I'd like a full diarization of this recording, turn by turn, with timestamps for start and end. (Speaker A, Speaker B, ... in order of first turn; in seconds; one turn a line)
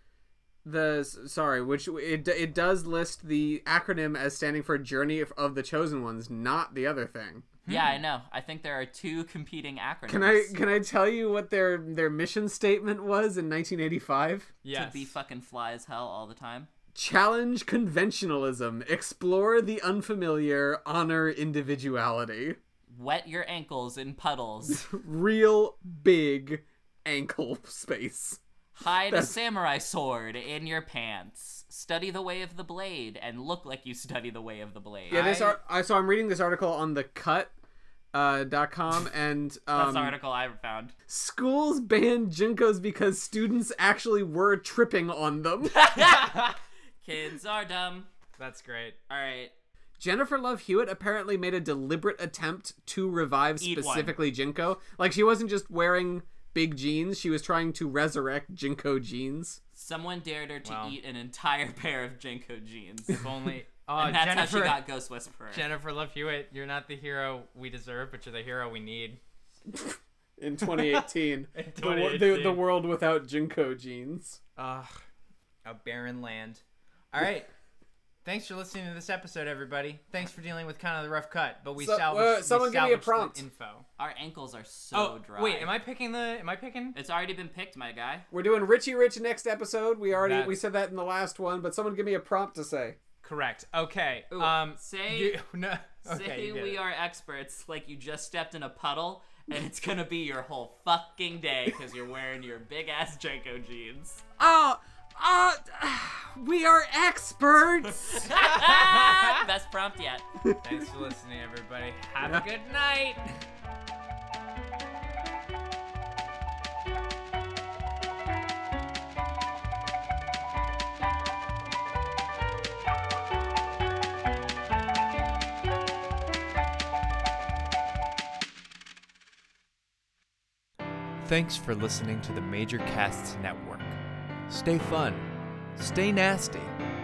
Speaker A: 0.6-7.5
Speaker B: 7.6-8.0
Speaker C: 7.7-10.6
Speaker A: 10.1-14.5
Speaker B: 14.6-15.1
Speaker C: 14.7-16.7
Speaker A: 16.9-22.6
Speaker C: 22.9-24.9
Speaker A: 24.7-28.4
Speaker C: 28.7-35.6
Speaker A: 29.1-29.3
Speaker A: 35.1-37.5
Speaker A: 38.1-40.1
Speaker C: 39.7-40.9
Speaker A: 41.1-45.9
Speaker C: 45.6-48.1
Speaker B: 48.4-49.0
Speaker C: 49.1-49.5
Speaker A: 50.0-59.6
Speaker C: 53.6-54.1
Speaker C: 59.7-63.2
Speaker B: 60.6-61.0
Speaker B: 63.1-64.8
Speaker C: 64.0-65.7
Speaker B: 65.5-69.2
Speaker A: 69.7-74.4
Speaker B: 70.6-71.0
Speaker B: 71.5-72.6
Speaker B: 74.6-75.0
Speaker B: 75.6-77.5
Speaker B: 78.2-83.8
Speaker A: 81.8-83.4
Speaker C: 84.0-85.7
Speaker B: 84.9-87.0
Speaker C: 86.9-88.2
Speaker A: 88.3-93.0
Speaker B: 90.1-90.5
Speaker B: 93.2-96.8
Speaker C: 94.3-95.4
Speaker C: 96.0-104.2
Speaker A: 104.4-108.3
Speaker C: 107.8-110.2
Speaker B: 108.3-109.4
Speaker B: 110.6-113.3
Speaker B: 131.2-136.8